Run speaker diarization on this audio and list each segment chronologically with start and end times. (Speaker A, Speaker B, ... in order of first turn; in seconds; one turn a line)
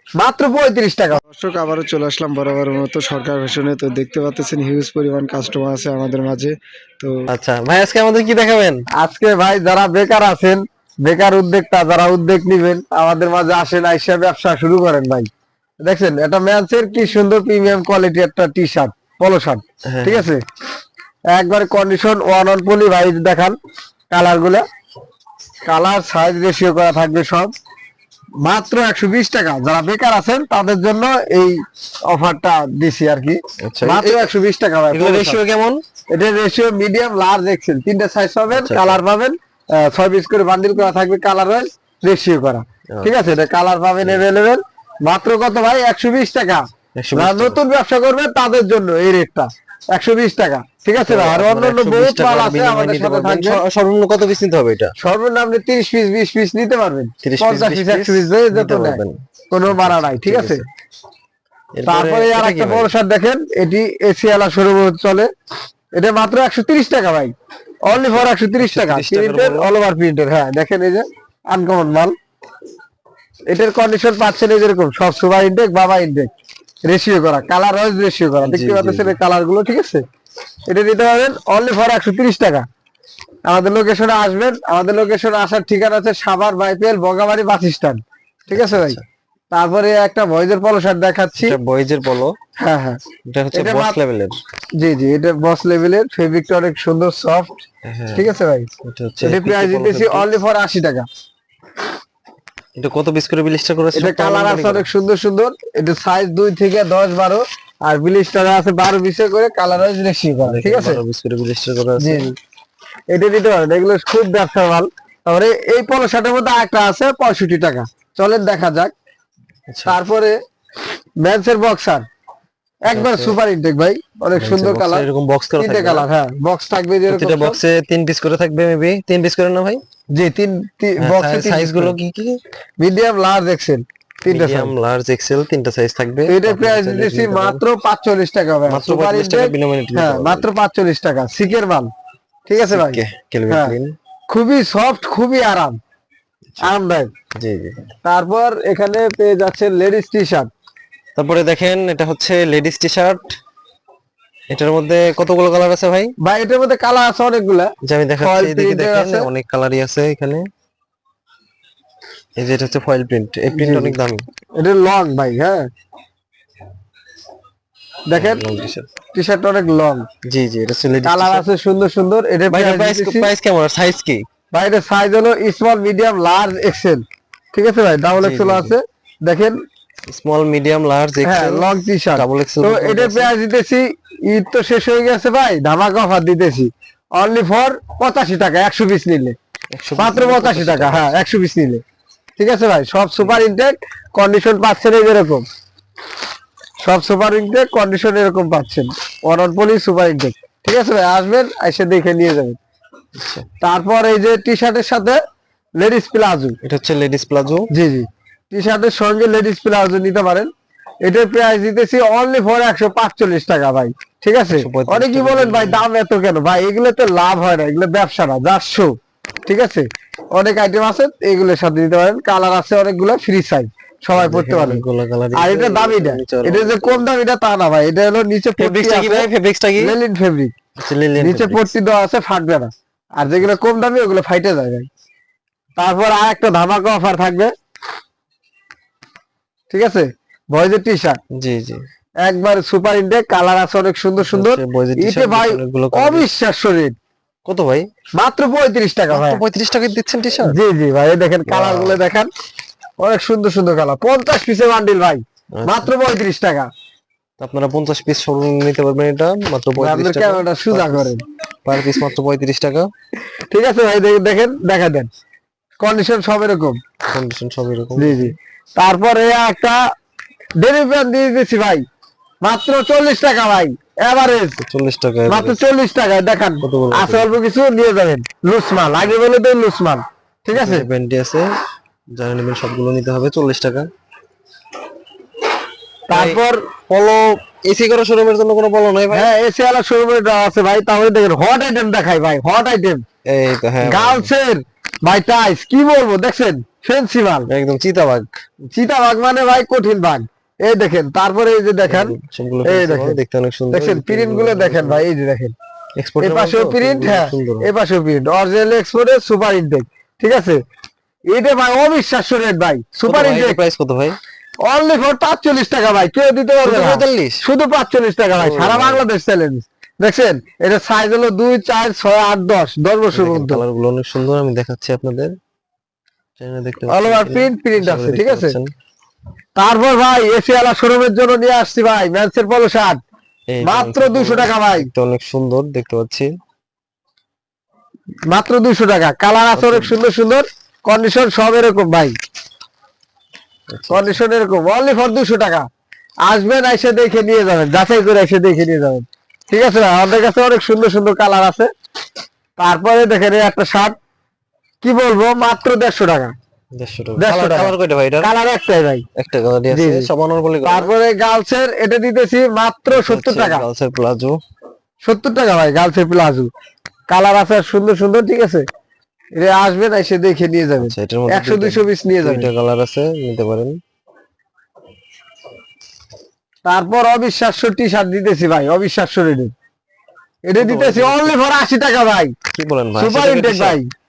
Speaker A: 0.2-1.2
Speaker B: 1.2-7.3
Speaker C: 7.3-8.8
Speaker A: 9.0-15.3
Speaker A: 15.8-20.4
Speaker C: 19.9-20.3
Speaker A: 21.3-23.6
Speaker A: 24.1-24.6
Speaker A: 25.6-27.5
Speaker A: 28.4-31.5
Speaker A: 32.1-35.4
Speaker C: 33.6-34.3
Speaker C: 34.9-35.8
Speaker A: 36.1-53.6
Speaker C: 38.5-39.0
Speaker C: 47.0-47.6
Speaker C: 51.0-54.9
Speaker A: 55.0-59.0
Speaker C: 57.2-60.6
Speaker A: 59.5-60.6
Speaker C: 61.8-62.9
Speaker A: 61.9-65.3
Speaker A: 66.0-67.3
Speaker A: 67.8-72.1
Speaker C: 67.9-69.7
Speaker A: 73.5-76.3
Speaker A: 76.8-80.0
Speaker C: 78.4-79.2
Speaker A: 80.7-82.6
Speaker A: 83.5-89.0
Speaker C: 88.5-89.0
Speaker A: 89.5-91.6
Speaker C: 91.3-92.3
Speaker A: 92.6-93.0
Speaker C: 93.2-94.4
Speaker A: 93.5-94.0
Speaker A: 94.8-97.6
Speaker C: 97.8-98.3
Speaker A: 98.1-98.7
Speaker C: 98.8-100.3
Speaker A: 99.2-101.0
Speaker C: 102.8-104.9
Speaker A: 103.9-111.0
Speaker C: 110.4-112.3
Speaker A: 112.0-112.3
Speaker A: 113.1-118.9
Speaker C: 119.7-120.0
Speaker A: 119.9-120.3
Speaker A: 121.2-122.0
Speaker A: 122.8-125.1
Speaker C: 122.9-123.4
Speaker C: 124.3-126.1
Speaker A: 125.6-127.6
Speaker C: 127.1-129.8
Speaker A: 130.1-131.9
Speaker C: 131.0-132.4
Speaker A: 132.8-134.7
Speaker C: 134.3-137.6
Speaker A: 136.3-141.9
Speaker C: 138.7-140.5
Speaker A: 142.5-143.7
Speaker C: 142.6-143.9
Speaker A: 144.3-145.8
Speaker A: 146.6-147.1
Speaker C: 147.4-147.8
Speaker A: 148.0-150.5
Speaker C: 151.1-153.3
Speaker C: 154.5-156.1
Speaker A: 156.2-159.3
Speaker C: 157.8-160.4
Speaker C: 162.4-164.2
Speaker A: 163.5-164.0
Speaker A: 164.6-165.7
Speaker A: 168.1-168.4
Speaker C: 168.1-168.9
Speaker A: 169.1-170.0
Speaker C: 170.2-171.4
Speaker A: 171.0-173.3
Speaker C: 172.5-174.2
Speaker A: 174.5-179.6
Speaker C: 178.2-178.7
Speaker C: 180.1-183.3
Speaker A: 181.2-189.3
Speaker C: 189.7-191.2
Speaker A: 190.0-191.8
Speaker A: 192.4-195.4
Speaker A: 196.8-202.6
Speaker C: 203.2-203.4
Speaker A: 203.6-205.2
Speaker A: 205.8-206.6
Speaker C: 206.6-207.7
Speaker A: 207.7-210.5
Speaker A: 211.0-218.9
Speaker C: 214.5-215.8
Speaker A: 219.4-224.8
Speaker C: 224.1-227.1
Speaker A: 225.3-230.5
Speaker C: 228.6-229.9
Speaker C: 230.8-231.7
Speaker A: 231.2-234.9
Speaker C: 233.3-233.5
Speaker A: 235.8-237.5
Speaker A: 239.7-241.2
Speaker C: 241.3-241.8
Speaker A: 242.2-246.9
Speaker C: 244.2-246.3
Speaker C: 247.4-247.8
Speaker A: 248.2-249.4
Speaker C: 249.1-250.6
Speaker A: 250.4-252.3
Speaker C: 251.4-252.0
Speaker A: 253.0-256.7
Speaker C: 255.5-255.9
Speaker C: 257.4-261.1
Speaker A: 259.8-261.2
Speaker C: 261.6-262.9
Speaker A: 263.5-265.1
Speaker A: 265.8-266.8
Speaker C: 267.1-268.3
Speaker A: 268.0-269.8
Speaker A: 270.6-271.8
Speaker A: 272.4-274.6
Speaker C: 274.6-275.6
Speaker A: 275.3-280.9
Speaker C: 276.6-277.3
Speaker C: 280.5-281.4
Speaker C: 282.1-283.9
Speaker A: 286.1-286.6
Speaker C: 286.1-289.3
Speaker A: 289.1-293.0
Speaker C: 293.3-294.3
Speaker A: 293.8-297.5
Speaker C: 297.5-298.3
Speaker A: 298.7-302.1
Speaker C: 301.9-305.0
Speaker A: 302.7-303.2
Speaker A: 303.7-305.5
Speaker C: 306.0-307.7
Speaker A: 306.2-310.6
Speaker A: 311.3-313.6
Speaker C: 313.1-314.1
Speaker A: 314.6-323.6
Speaker C: 316.6-317.4
Speaker C: 318.4-319.0
Speaker C: 323.1-325.3
Speaker C: 326.4-328.7
Speaker A: 326.9-328.6
Speaker A: 329.6-333.0
Speaker C: 333.5-336.3
Speaker A: 333.6-334.9
Speaker A: 338.3-342.1
Speaker C: 339.5-339.9
Speaker C: 343.7-344.1
Speaker A: 343.9-345.7
Speaker A: 346.2-351.7
Speaker A: 352.6-353.9
Speaker A: 354.8-356.3
Speaker C: 356.8-358.3
Speaker A: 357.2-359.0
Speaker C: 359.2-360.9
Speaker A: 359.7-360.1
Speaker A: 360.6-363.7
Speaker C: 362.9-364.4
Speaker A: 365.0-366.5
Speaker A: 367.1-368.6
Speaker A: 369.4-372.5
Speaker C: 370.8-373.8
Speaker A: 376.6-379.5
Speaker A: 380.5-382.3
Speaker C: 380.6-381.4
Speaker C: 382.5-383.8
Speaker A: 382.9-383.8